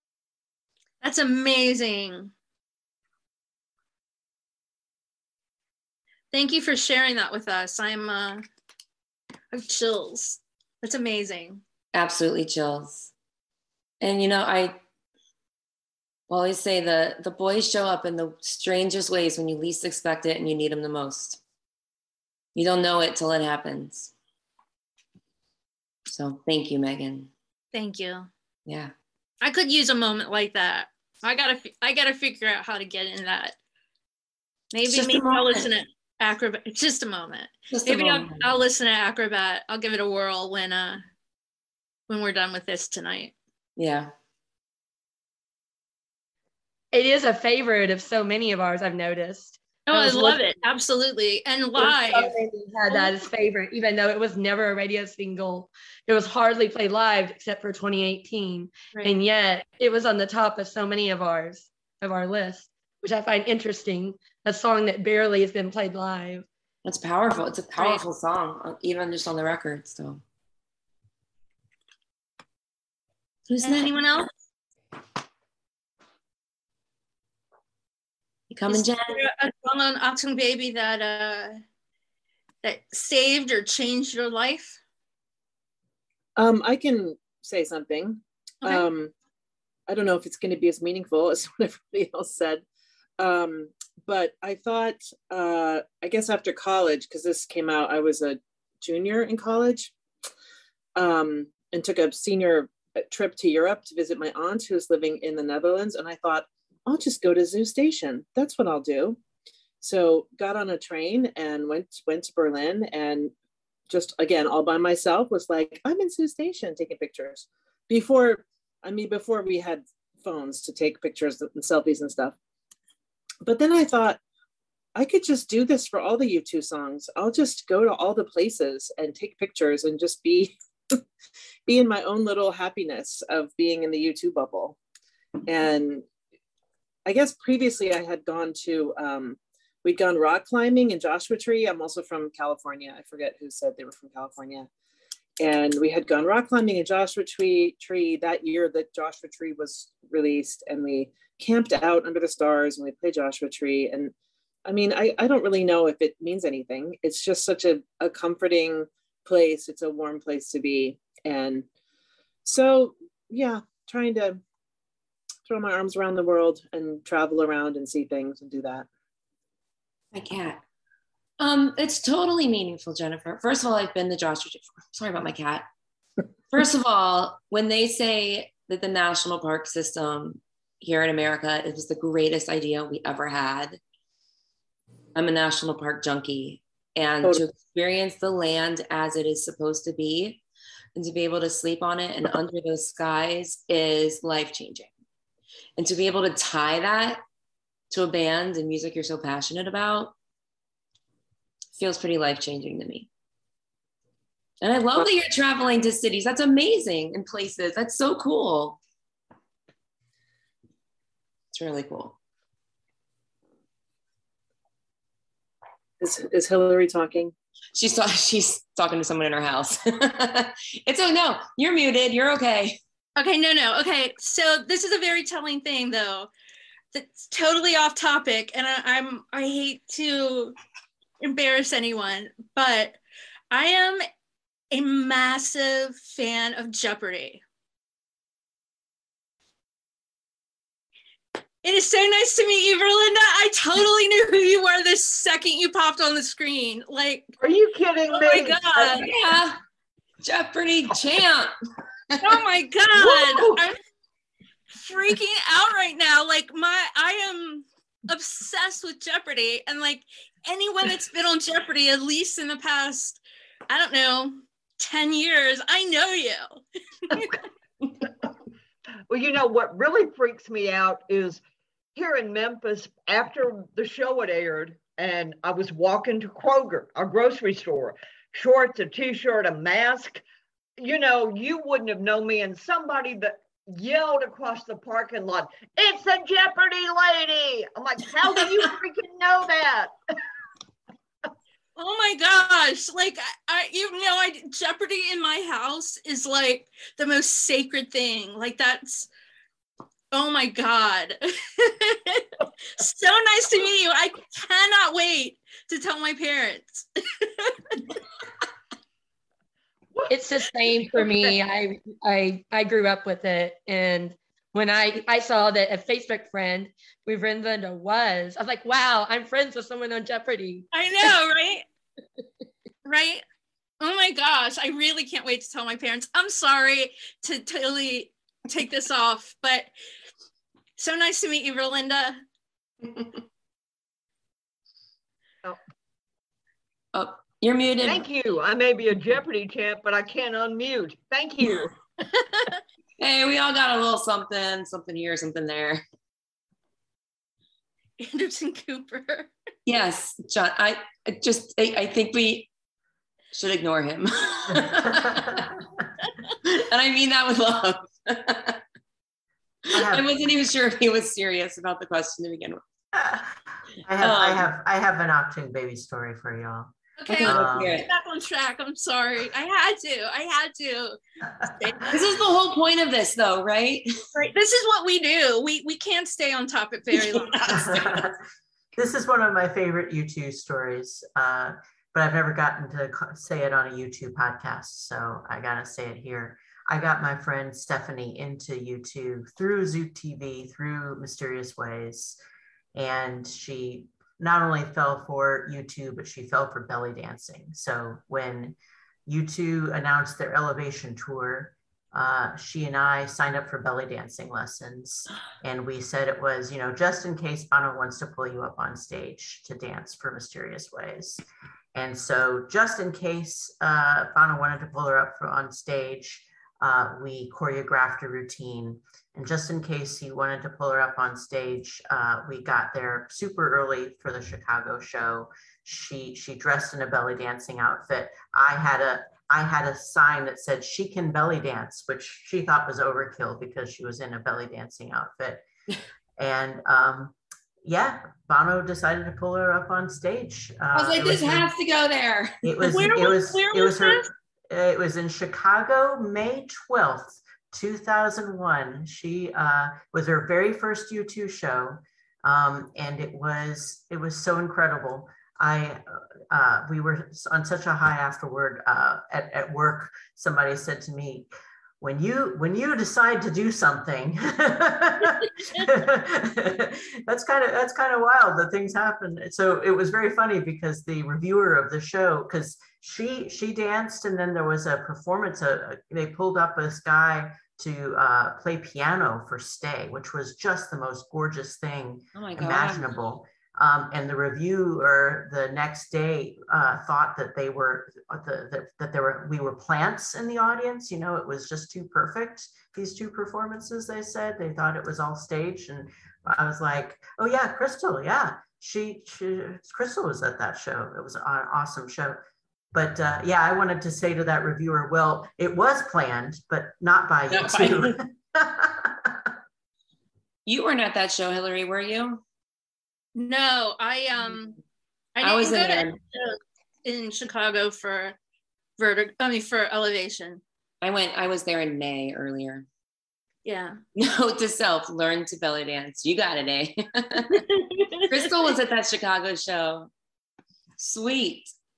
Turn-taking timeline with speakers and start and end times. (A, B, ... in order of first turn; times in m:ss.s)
0:01.0-0:02.3 A
0:06.3-0:08.4 A
0:09.5-0:11.6 A
0:11.9-0:13.1 B
0:14.0-0:14.8 B
0:16.3-0:21.4 B
0:22.6-0:24.1 B
0:26.1-0:27.3 B
0:27.7-0:28.3 A
0:28.7-0:28.9 B
0:29.4-0:33.6 A
0:34.7-0:41.0 A
0:34.9-0:35.7 B
0:37.7-0:38.5 B
0:42.1-0:43.3 A
0:43.8-0:44.1 B
0:46.9-0:50.5 C
0:49.9-0:52.4 A
0:51.8-1:06.5 C
0:52.9-0:53.2 A
1:06.8-1:10.2 B
1:07.8-1:08.0 A
1:13.5-1:14.0 B
1:13.6-1:14.3 A
1:18.5-1:19.2 B
1:18.7-1:21.6 A
1:22.6-1:24.8 A
1:26.4-1:29.1 D
1:29.9-1:32.6 D
1:33.2-1:39.9 D
1:41.0-1:49.2 D
1:49.8-1:53.3 D
1:53.9-2:02.4 D
2:03.4-2:04.2 D
2:05.0-2:11.0 D
2:11.7-2:14.8 D
2:15.5-2:16.0 D
2:17.1-2:24.7 D
2:25.4-2:34.1 D
2:34.7-2:41.7 D
2:42.4-2:44.4 D
2:45.5-2:48.9 D
2:50.1-2:50.6 B
2:51.4-2:55.7 B
2:56.5-3:03.8 B
3:05.2-3:10.4 B
3:11.0-3:14.9 B
3:15.8-3:17.2 B
3:17.9-3:20.1 B
3:21.8-3:23.1 B
3:24.6-3:28.8 B
3:31.5-3:32.2 B
3:36.0-3:37.3 D
3:37.8-3:42.8 B
3:43.2-3:46.3 A
3:46.9-3:50.6 A
3:51.2-3:53.0 A
3:53.5-3:54.0 A
3:54.7-3:57.4 A
4:01.6-4:07.3 A
4:07.4-4:09.0 E
4:08.1-4:09.1 A
4:09.0-4:09.6 B
4:10.2-4:11.5 B
4:12.2-4:13.8 A
4:14.8-4:27.3 A
4:29.1-4:31.4 E
4:32.0-4:40.2 E
4:40.8-4:49.9 E
4:51.8-4:59.1 A
5:00.1-5:07.5 A
5:10.1-5:20.7 C
5:20.7-5:21.6 A
5:22.8-5:23.2 A
5:23.8-5:29.7 A
5:30.8-5:32.2 A
5:36.9-5:38.0 B
5:37.8-5:41.7 E
5:43.0-5:45.8 B
5:48.0-5:49.3 A
5:49.7-5:52.5 B
5:53.3-5:55.5 B
5:54.5-5:55.6 F
5:56.4-5:58.6 B
5:59.7-6:00.1 F
5:59.7-6:02.6 B
6:02.9-6:03.2 F
6:03.9-6:06.7 F
6:04.0-6:04.5 B
6:07.0-6:11.9 A
6:07.1-6:07.9 B
6:07.2-6:07.8 F
6:11.9-6:13.9 B
6:14.2-6:17.7 A
6:17.5-6:18.2 F
6:18.8-6:32.2 F
6:32.8-6:51.2 F
6:51.8-7:15.4 F
7:16.2-7:21.5 F
7:20.7-7:22.5 B
7:22.4-7:41.3 F
7:22.7-7:24.0 A
7:41.8-8:22.2 F
8:02.1-8:02.9 B
8:22.7-8:29.2 F
8:27.3-8:28.0 B
8:30.5-8:32.2 B
8:33.2-8:34.6 A
8:35.2-8:38.2 A
8:35.2-8:36.0 B
8:38.8-8:40.4 A
8:40.8-8:42.7 B
8:43.4-8:43.8 A
8:44.0-8:47.4 B
8:47.4-8:48.0 A
8:48.1-8:49.9 B
8:50.8-8:51.5 B